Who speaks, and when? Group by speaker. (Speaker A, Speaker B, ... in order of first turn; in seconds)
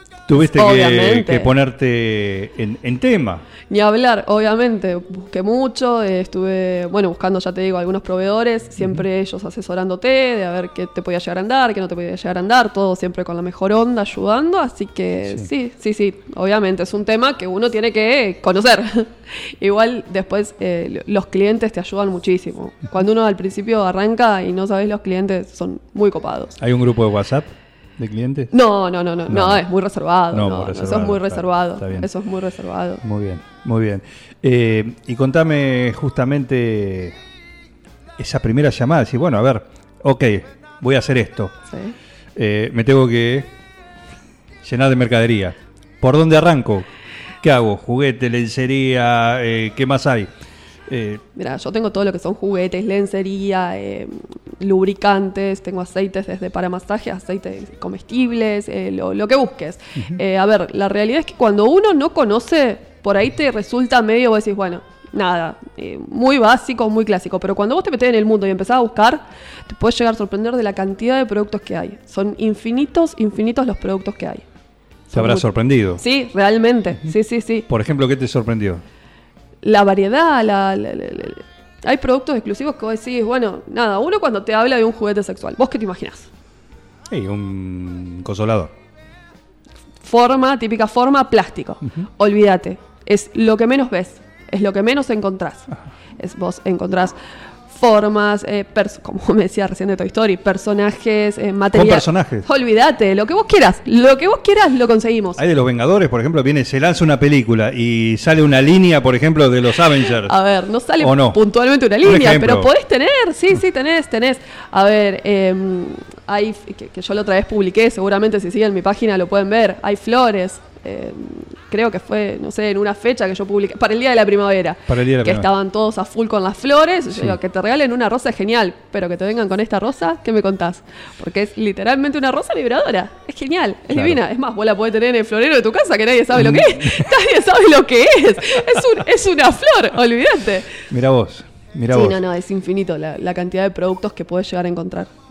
Speaker A: 0.3-3.4, 26.6-28.5, 29.3-29.6, 30.3-32.1, 33.0-37.1, 38.2-41.5, 42.4-43.5, 44.6-46.9, 47.4-50.3, 50.9-51.2, 75.1-76.0, 77.7-78.8, 87.1-88.7, 101.7-102.5, 105.4-110.3, 111.0-111.4, 112.0-112.7, 124.9-125.5, 133.9-134.2, 136.3-137.1, 140.9-142.2
Speaker B: 0.3-1.5, 3.7-26.6, 28.5-33.0, 41.7-41.9, 51.4-74.4, 75.1-77.7, 79.6-86.3, 90.0-97.2, 97.7-105.4, 110.2-140.8, 141.9-145.1